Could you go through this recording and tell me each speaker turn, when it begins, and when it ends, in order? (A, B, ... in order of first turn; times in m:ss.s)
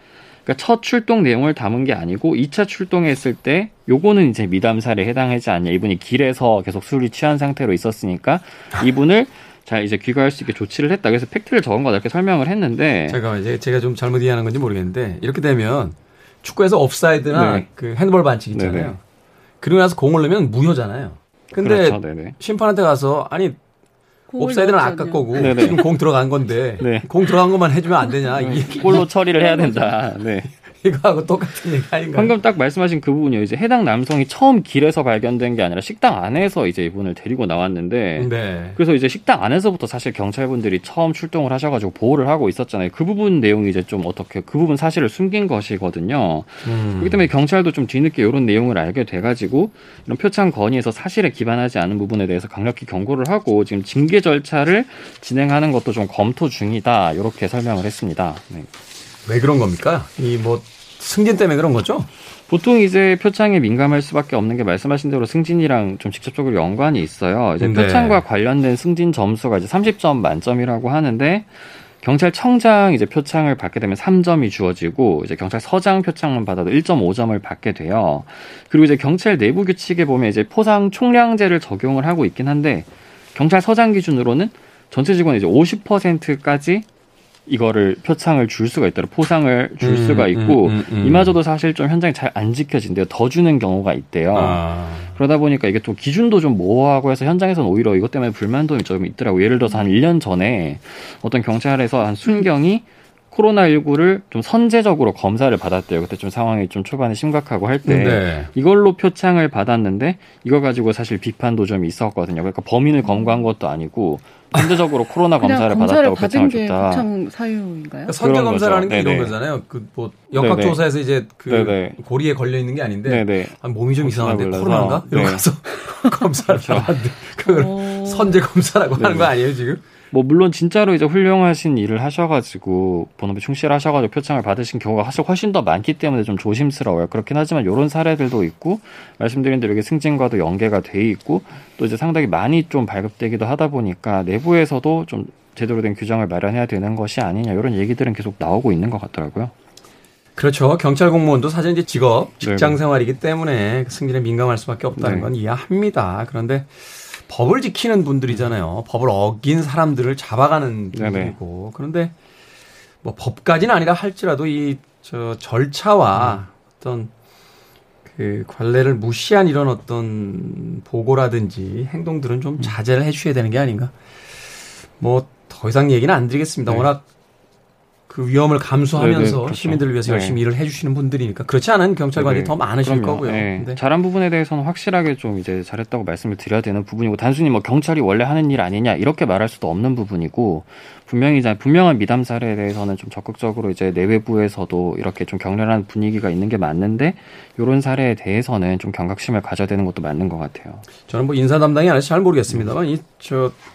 0:00.5-0:13.2 A
0:13.1-0:19.0 B
0:17.3-0:17.7 A
0:18.5-0:19.0 A
0:19.6-0:23.6 B
0:21.6-0:22.4 A
0:24.3-0:25.8 C
0:24.4-0:29.2 B
0:25.3-0:25.9 A
0:26.8-0:27.1 A
0:28.3-0:30.5 A
0:29.4-0:29.9 C
0:30.5-0:32.4 B
0:32.2-0:58.7 A
0:38.2-0:38.8 B
0:46.6-0:47.3 B
0:59.3-1:02.1 B
1:02.5-1:26.9 A
1:07.6-1:08.2 B
1:27.5-1:57.1 A
1:29.8-1:31.4 B
1:34.3-1:35.1 B
1:47.8-1:48.5 B
1:53.1-1:53.3 C
1:54.5-1:54.8 B
1:55.4-1:58.2 C
1:58.1-2:09.8 B
1:58.2-1:59.4 A
2:00.4-2:00.8 A
2:01.5-2:02.0 A
2:03.1-2:05.5 A
2:06.5-2:06.9 A
2:07.4-2:08.4 C
2:09.0-2:09.3 A
2:10.1-2:29.5 A
2:30.4-2:42.1 B
2:32.4-2:32.8 A
2:35.0-2:35.3 A
2:40.9-2:41.4 A
2:43.0-2:47.1 B
2:46.1-2:46.4 A
2:48.1-2:53.9 B
2:55.0-2:57.0 B
2:58.1-3:03.8 B
2:59.0-3:00.4 A
3:02.2-3:20.8 A
3:21.1-3:23.6 B